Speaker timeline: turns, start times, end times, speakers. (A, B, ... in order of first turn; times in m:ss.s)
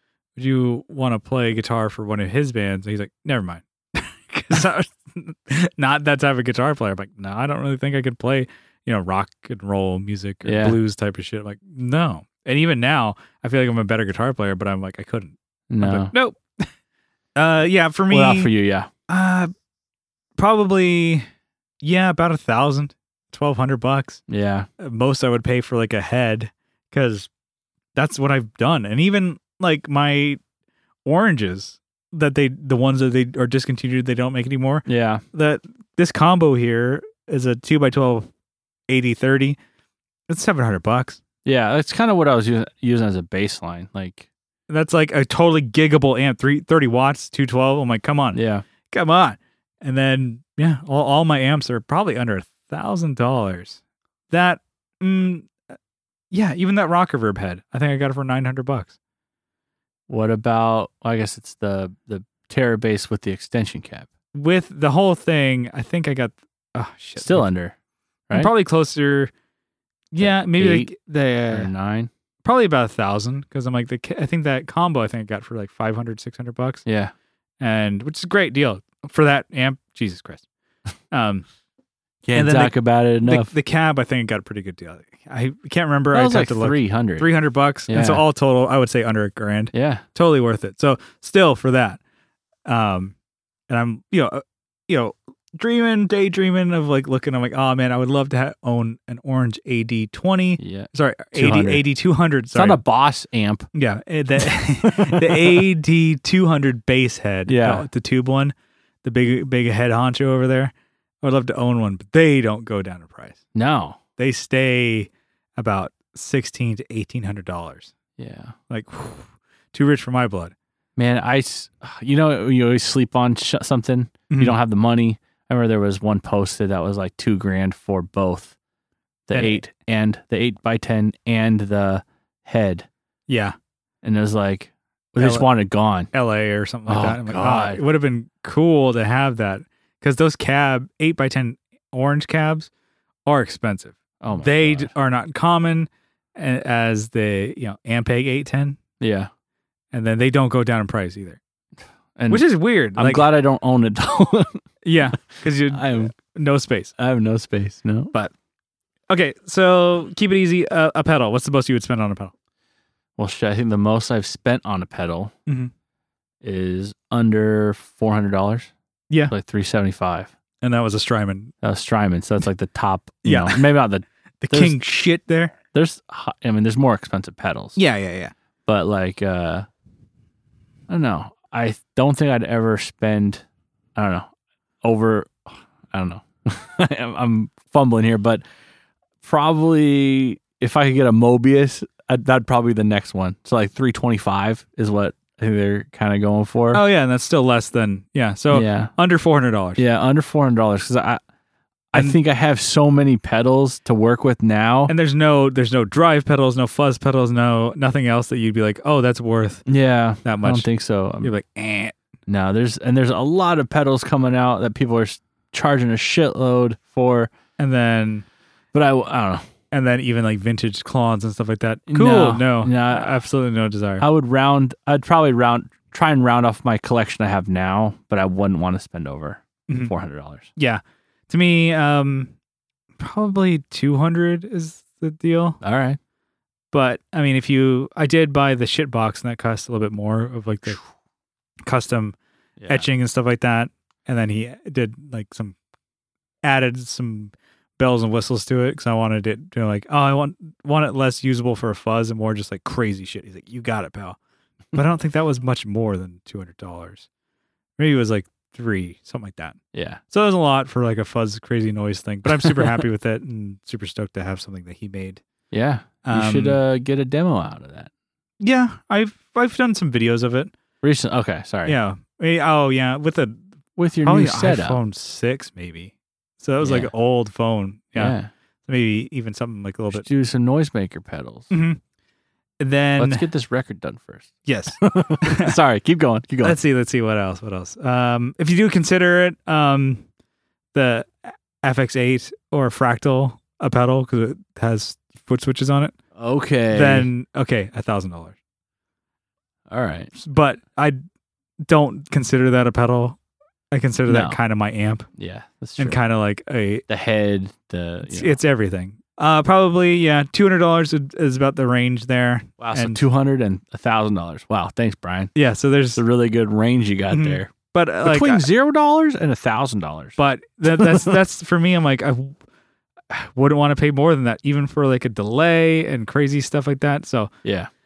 0:00.4-0:16.7 A
0:10.4-0:10.8 B
0:15.7-0:16.1 B
0:17.4-0:18.5 A
0:18.1-0:18.9 B
0:19.1-0:19.5 A
0:20.4-0:21.3 A
0:21.8-0:24.2 A
0:24.3-0:24.7 B
0:24.8-0:27.3 A
0:28.0-0:30.4 A
0:31.0-0:38.3 A
0:34.9-0:35.2 B
0:38.9-0:39.6 A
0:40.3-0:41.2 A
0:41.4-0:44.3 B
0:44.7-0:53.8 A
0:48.3-0:48.7 B
0:54.3-0:55.6 A
0:56.3-0:59.0 A
1:00.1-1:04.1 B
1:04.3-1:07.5 A
1:07.2-1:07.8 B
1:08.3-1:09.3 A
1:10.1-1:11.7 A
1:10.2-1:10.9 B
1:11.5-1:12.1 B
1:12.4-1:16.8 A
1:16.9-1:17.1 B
1:17.6-1:20.4 A
1:21.1-1:21.5 A
1:22.2-1:23.5 B
1:22.3-1:32.0 A
1:26.1-1:27.3 B
1:27.9-1:28.2 B
1:29.7-1:30.0 B
1:32.7-1:33.2 A
1:33.7-1:42.8 A
1:40.6-1:41.9 B
1:42.5-1:43.7 B
1:43.7-1:53.4 A
1:44.8-1:45.6 B
1:47.5-1:47.8 B
1:53.6-1:54.0 B
1:54.2-1:57.9 A
1:58.2-1:58.6 B
1:58.7-2:00.5 A
2:01.0-2:08.6 B
2:04.3-2:04.6 A
2:09.3-2:12.9 B
2:09.3-2:09.6 A
2:13.3-2:13.6 A
2:14.0-2:16.1 B
2:15.2-2:15.5 A
2:16.1-2:22.7 A
2:16.9-2:17.8 B
2:23.3-2:28.8 A
2:24.2-2:24.9 B
2:29.0-2:29.3 B
2:29.9-2:31.4 A
2:32.2-2:36.1 B
2:32.3-2:33.3 A
2:34.8-2:36.9 A
2:37.0-2:38.1 B
2:39.1-2:42.3 A
2:43.2-2:45.3 B
2:46.4-2:48.7 B
2:49.3-2:50.3 B
2:50.6-2:51.5 A
2:51.6-2:54.8 B
2:53.2-2:53.8 A
2:54.4-2:55.6 A
2:55.7-2:57.8 B
2:57.8-2:58.3 A
2:58.7-2:59.7 B
3:00.9-3:03.4 B
3:04.0-3:04.3 B
3:04.8-3:08.4 B
3:09.2-3:16.8 B
3:16.7-3:19.8 A
3:18.5-3:18.9 B
3:19.8-3:21.2 B
3:21.9-3:24.9 B
3:24.9-3:29.6 A
3:29.7-3:31.3 B
3:30.2-3:30.7 A
3:31.2-3:32.0 A
3:32.3-3:37.3 B
3:37.6-3:38.2 A
3:38.7-3:39.5 B
3:39.7-3:44.0 A
3:41.9-3:43.1 B
3:44.0-3:50.5 B
3:50.6-3:52.3 A
3:53.0-3:55.6 A
3:55.6-3:56.0 B
3:56.7-4:00.8 A
4:01.6-4:02.2 A
4:02.6-4:02.9 B
4:02.7-4:05.6 A
4:06.4-4:14.2 A
4:14.7-4:17.1 A
4:17.8-4:19.6 A
4:19.7-4:20.0 B
4:20.1-4:25.2 A
4:25.5-4:27.9 B
4:26.0-4:26.6 A
4:28.4-4:30.5 A
4:30.8-4:31.8 B
4:31.7-4:33.4 A
4:33.8-4:34.8 B
4:34.0-4:40.0 A
4:36.6-4:36.9 B
4:38.0-4:38.3 B
4:39.9-4:41.5 B
4:41.5-4:41.8 A
4:42.6-4:43.2 A
4:43.0-4:46.6 B
4:44.5-4:45.6 A
4:46.4-4:50.0 A
4:50.7-4:56.0 A
4:56.2-4:57.1 B
4:56.7-4:58.4 A
4:59.7-5:00.1 B
5:00.2-5:01.0 A
5:01.6-5:03.2 A
5:03.7-5:05.1 A
5:04.1-5:04.4 B
5:05.2-5:06.0 B
5:05.8-5:06.8 A
5:06.9-5:08.4 B
5:08.0-5:13.0 A
5:12.6-5:15.3 B
5:15.4-5:16.0 A
5:16.0-5:17.5 B
5:17.1-5:18.4 A
5:18.0-5:21.2 B
5:20.2-5:22.4 A
5:23.1-5:27.3 A
5:27.4-5:27.7 B